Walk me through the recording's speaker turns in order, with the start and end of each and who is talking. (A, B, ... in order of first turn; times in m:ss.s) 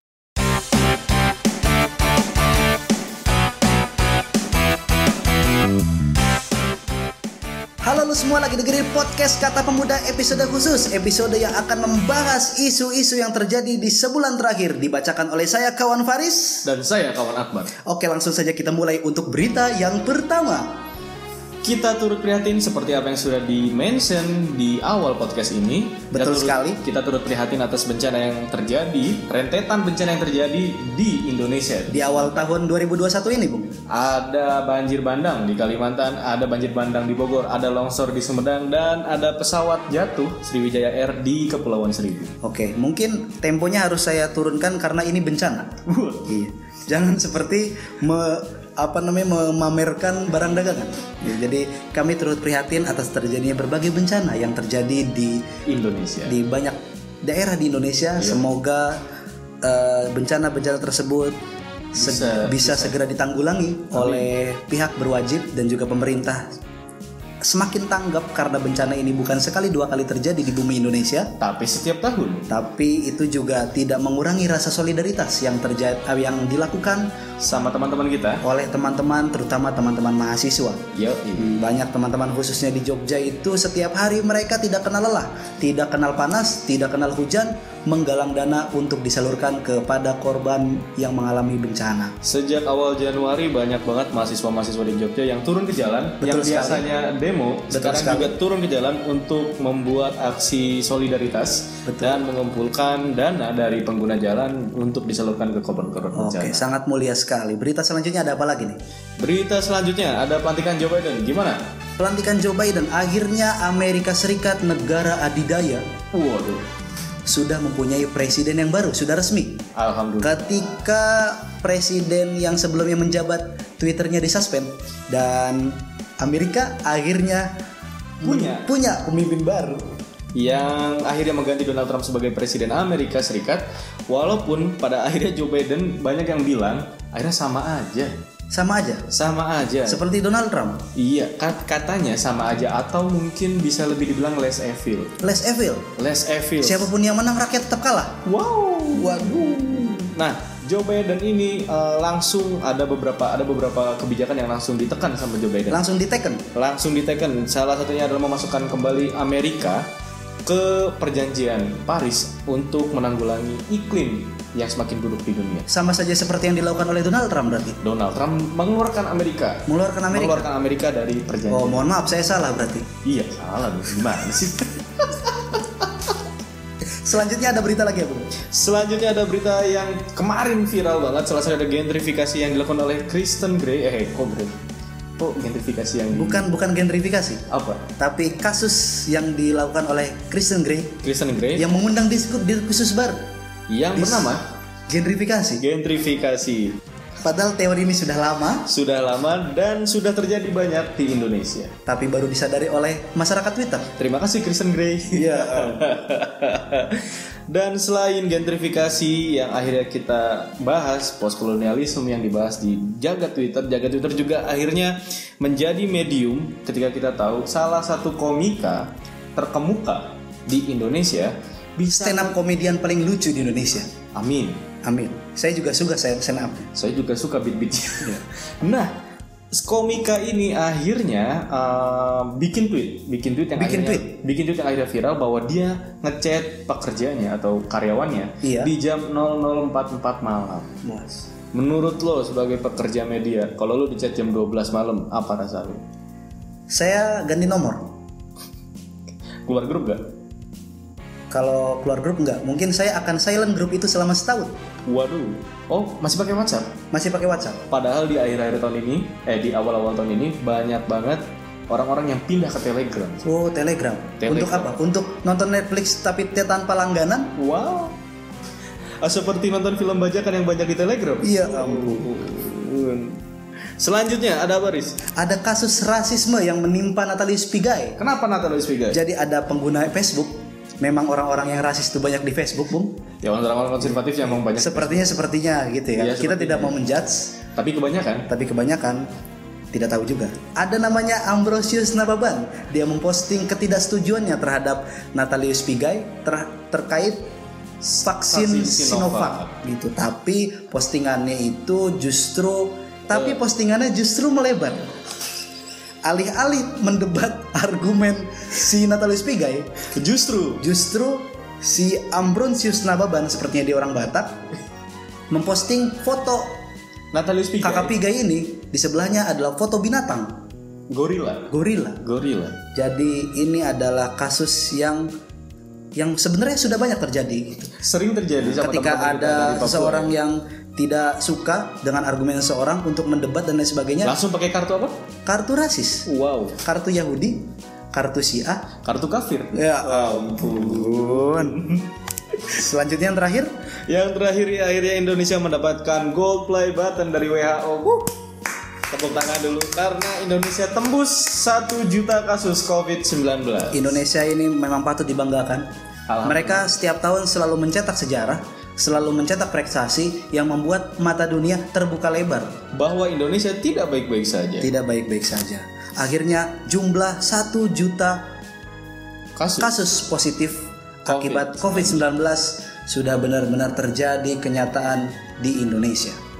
0:07.8-0:16.7 A
0:16.6-0:17.7 B
0:17.8-0:20.8 A
0:21.6-0:32.5 B
0:26.1-0:26.8 A
0:31.9-0:33.7 A
0:33.9-0:42.3 B
0:42.4-0:45.7 A
0:45.8-0:46.4 B
0:46.2-0:55.4 A
0:55.6-0:56.4 B
0:56.3-0:59.0 A
0:58.2-0:58.4 B
0:59.6-1:01.4 A
1:01.9-1:06.5 A
1:02.0-1:03.0 B
1:03.9-1:04.3 B
1:07.4-1:11.3 A
1:11.4-1:12.5 B
1:12.5-1:17.1 A
1:17.4-1:18.4 B
1:18.4-1:20.8 A
1:20.9-1:21.6 B
1:21.4-1:32.1 A
1:32.2-1:46.6 B
1:36.2-1:36.8 A
1:37.7-1:38.3 A
1:41.8-1:42.2 A
1:46.1-1:48.8 A
1:49.2-1:51.6 B
1:52.0-1:55.8 A
1:56.1-1:56.7 B
1:57.3-1:59.6 A
1:59.7-2:00.7 B
2:00.2-2:07.5 A
2:08.2-2:09.9 A
2:08.2-2:08.7 B
2:10.3-2:18.1 B
2:18.5-2:19.1 A
2:19.1-2:20.0 B
2:19.9-2:20.8 A
2:20.9-2:25.1 B
2:25.2-2:25.9 A
2:26.0-2:26.9 B
2:26.6-2:28.2 A
2:28.2-2:35.8 B
2:28.9-2:29.9 A
2:35.7-2:36.4 A
2:36.5-2:39.8 B
2:40.4-2:45.7 B
2:45.7-2:47.8 A
2:47.8-2:51.9 B
2:49.7-2:50.5 A
2:51.5-2:52.9 A
2:53.0-2:55.9 B
2:57.0-2:58.3 A
2:58.4-3:04.6 B
3:05.2-3:06.5 B
3:06.1-3:07.4 A
3:07.5-3:07.9 B
3:08.0-3:11.0 A
3:11.0-3:11.7 B
3:11.6-3:13.2 A
3:13.7-3:14.4 B
3:14.0-3:14.4 A
3:14.9-3:15.6 A
3:15.6-3:16.8 B
3:17.2-3:18.7 A
3:18.6-3:21.7 B
3:21.8-3:23.9 A
3:24.0-3:42.4 B
3:25.1-3:25.9 A
3:41.9-3:43.9 A
3:44.1-3:44.6 B
3:44.8-3:46.7 A
3:46.7-3:48.9 B
3:49.5-4:00.8 B
3:53.6-3:54.1 A
3:58.4-3:58.7 A
4:00.8-4:01.2 A
4:01.5-4:05.8 B
4:06.7-4:08.0 A
4:09.4-4:10.0 B
4:11.3-4:14.5 A
4:14.9-4:16.8 B
4:16.9-4:17.6 A
4:17.7-4:23.2 B
4:23.2-4:27.3 A
4:24.2-4:24.8 B
4:27.4-4:28.0 B
4:29.0-4:33.2 B
4:31.2-4:32.1 A
4:33.8-4:35.0 B
4:35.2-4:38.0 A
4:38.0-4:39.0 B
4:38.9-4:42.9 A
4:43.2-4:45.2 B
4:43.9-4:47.3 A
4:46.0-4:46.8 B
4:47.5-4:48.3 B
4:48.3-4:49.0 A
4:49.7-4:57.2 A
4:57.8-4:59.6 B
4:58.0-5:04.9 A
5:03.1-5:03.4 B
5:06.0-5:09.8 A
5:09.9-5:10.6 B
5:10.6-5:14.4 A
5:15.3-5:16.6 A
5:17.1-5:17.9 B
5:17.6-5:20.4 A
5:20.9-5:22.6 B
5:21.5-5:22.0 A
5:22.7-5:25.0 A
5:26.0-5:27.7 A
5:27.8-5:30.1 B
5:28.4-5:34.1 A
5:34.0-5:35.0 B
5:35.2-5:36.0 A
5:36.0-5:36.6 B
5:36.6-5:37.4 A
5:37.9-5:38.7 A
5:38.8-5:41.9 B
5:39.5-5:41.6 A
5:42.5-5:43.5 A
5:43.9-5:48.1 B
5:48.9-5:53.9 B
5:53.7-5:55.6 A
5:56.1-5:56.7 B
5:56.2-6:02.5 A
6:02.7-6:04.7 B
6:04.6-6:08.2 A
6:09.4-6:09.7 B
6:09.6-6:16.2 A
6:11.1-6:12.0 B